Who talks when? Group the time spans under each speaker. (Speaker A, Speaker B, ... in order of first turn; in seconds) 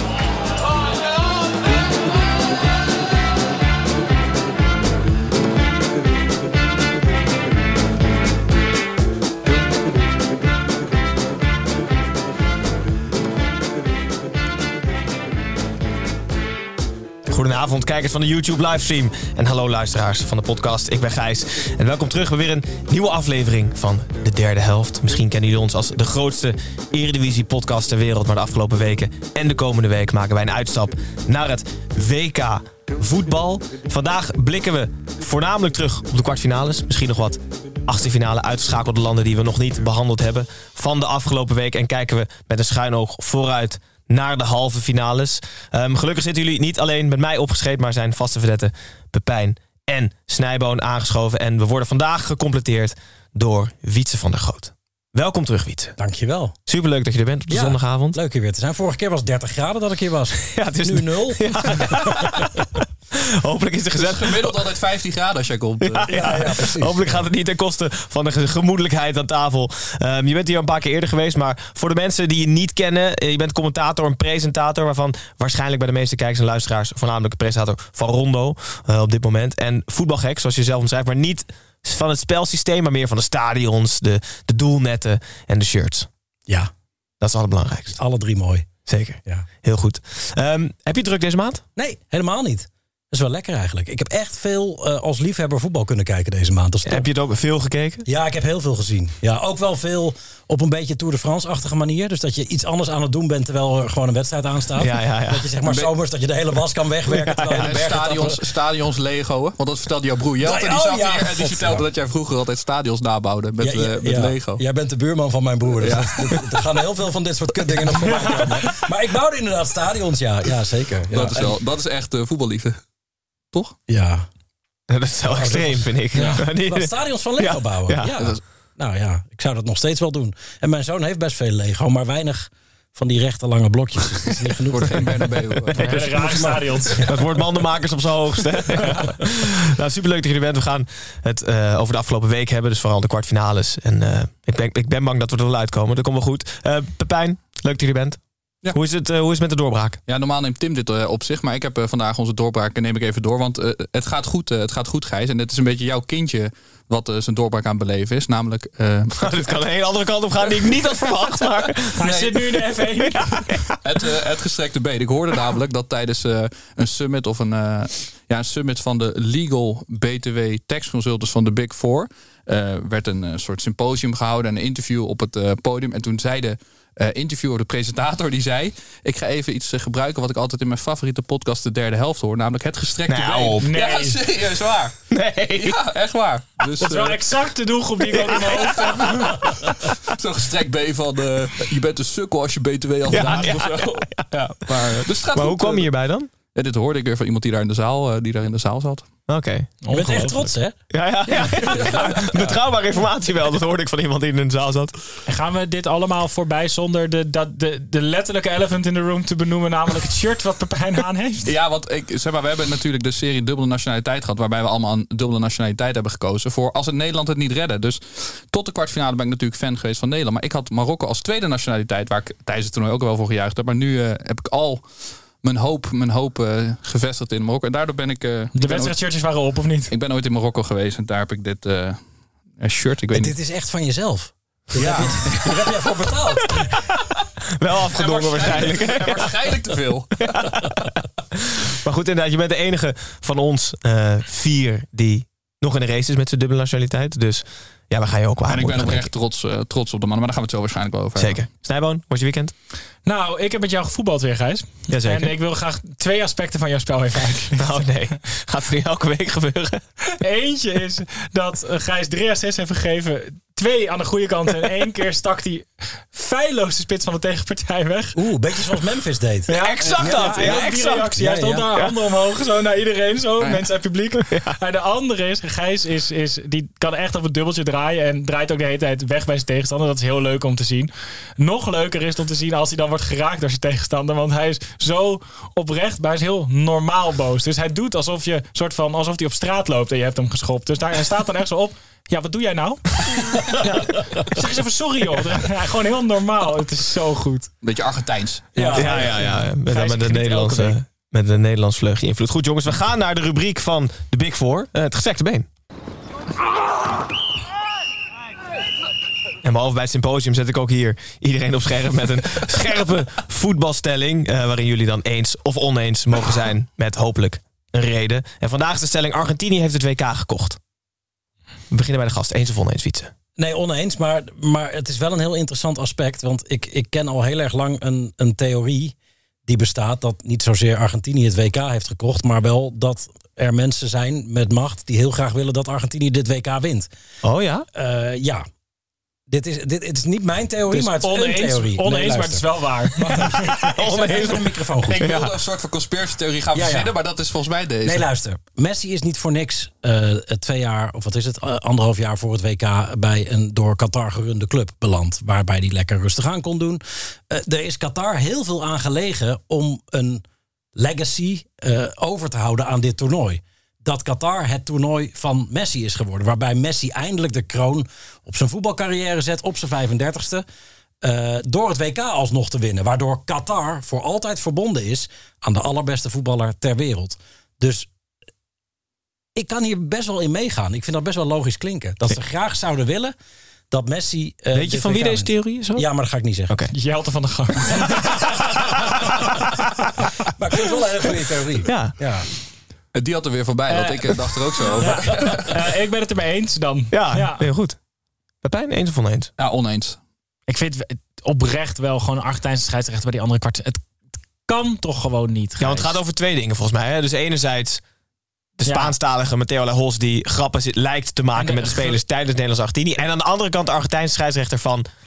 Speaker A: 17.2-56.0, 56.7-58.2, 60.5-62.6, 63.2-64.6, 65.8-86.1, 87.2-88.0, 88.9-91.6, 96.8-98.1, 104.8-105.5, 107.1-107.8, 124.9-128.3, 135.7-136.4, 137.0-148.2, 148.7-150.0, 159.2-162.1, 163.0-163.9, 183.1-183.7, 185.1-185.8, 193.1-194.1, 194.7-196.3, 199.3-199.7, 200.9-205.0, 237.6-239.3, 240.2-249.1, 251.2-252.5, 254.9-255.3, 257.6-259.8, 269.5-271.1, 274.2-274.6, 298.8-305.5, 309.4-320.6, 321.7-323.1, 337.2-337.7, 343.6-345.3, 384.5-385.9, 391.6-392.0, 396.9-397.8, 398.4-399.3, 405.6-407.8, 408.6-414.9
Speaker B: 56.0-56.6, 57.5-62.4, 66.1-67.2, 88.0-88.7, 91.8-97.1, 98.1-108.4, 110.4-111.8, 113.6-121.6, 123.9-124.3, 125.3-137.1, 199.9-200.8, 201.4-202.1, 233.1-236.8, 268.2-271.7, 298.6-299.2, 323.4-336.9, 337.8-338.4, 339.3-342.4, 343.0-345.0, 346.5-346.9, 347.9-360.2, 360.8-370.4, 371.0-377.9, 379.4-383.1, 383.7-386.6, 389.1-389.4, 390.4-392.3
Speaker C: 63.9-66.4, 105.7-105.9, 107.6-114.6, 115.8-116.4, 121.1-122.8, 134.7-135.8, 150.1-159.6, 162.0-162.4, 163.8-187.2, 188.3-195.9, 196.5-199.1, 211.4-224.9, 225.4-229.0, 229.9-232.0, 232.6-233.3, 234.8-235.8, 237.9-240.4, 248.5-251.4, 297.6-298.5, 344.9-348.1, 392.9-395.5, 399.4-400.0
Speaker D: 135.8-137.0, 162.0-163.6, 183.6-184.2, 186.8-189.6, 199.8-200.5, 205.3-211.5, 228.6-229.9, 253.1-257.9, 260.2-268.2, 269.5-297.5, 298.6-300.8, 340.7-343.3, 386.7-388.1, 393.7-394.1, 394.8-397.5, 400.5-403.9, 404.4-406.0, 408.7-409.0, 411.4-412.0